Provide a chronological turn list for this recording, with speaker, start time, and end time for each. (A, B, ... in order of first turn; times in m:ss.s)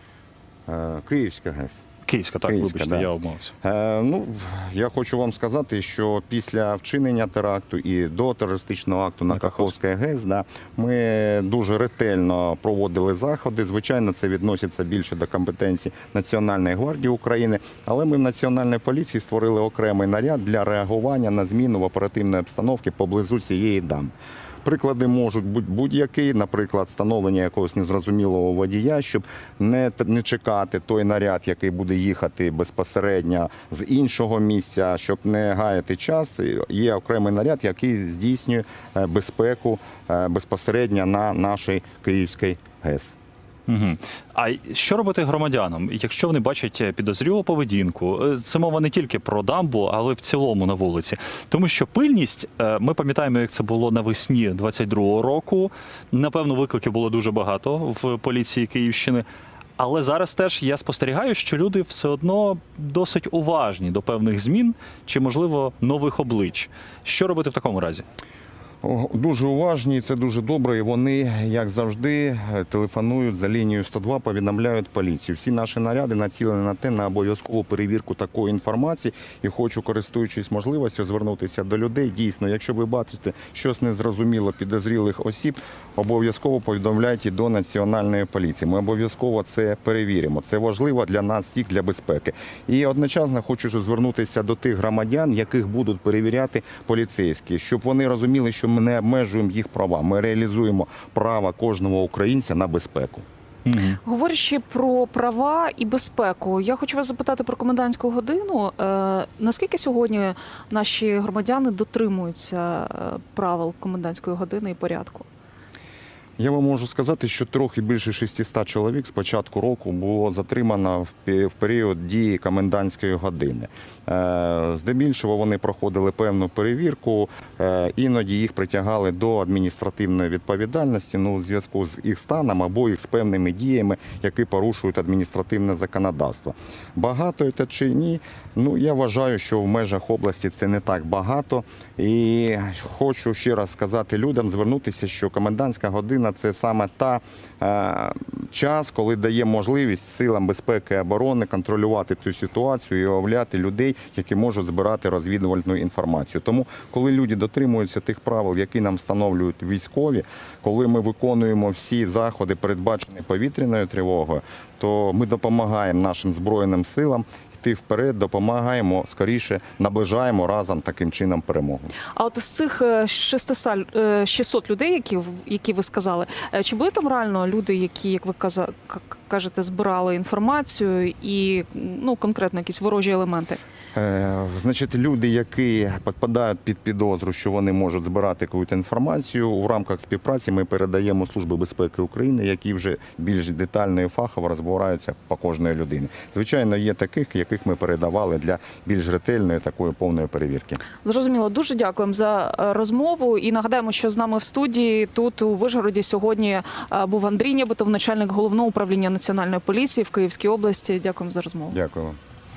0:00.7-0:01.8 A
0:02.0-0:03.5 B
0:02.4-0:03.1 A
0:03.6-0:24.1 A
0:09.3-0:09.7 B
0:24.6-0:43.1 A
0:43.7-0:59.2 B
0:59.8-1:08.0 B
1:08.8-1:43.2 A
1:43.6-1:44.0 B
1:44.0-1:55.3 C
1:56.4-2:51.9 A
2:52.2-3:03.6 C
3:03.9-3:20.8 A
3:21.0-3:31.8 C
3:31.7-3:32.2 A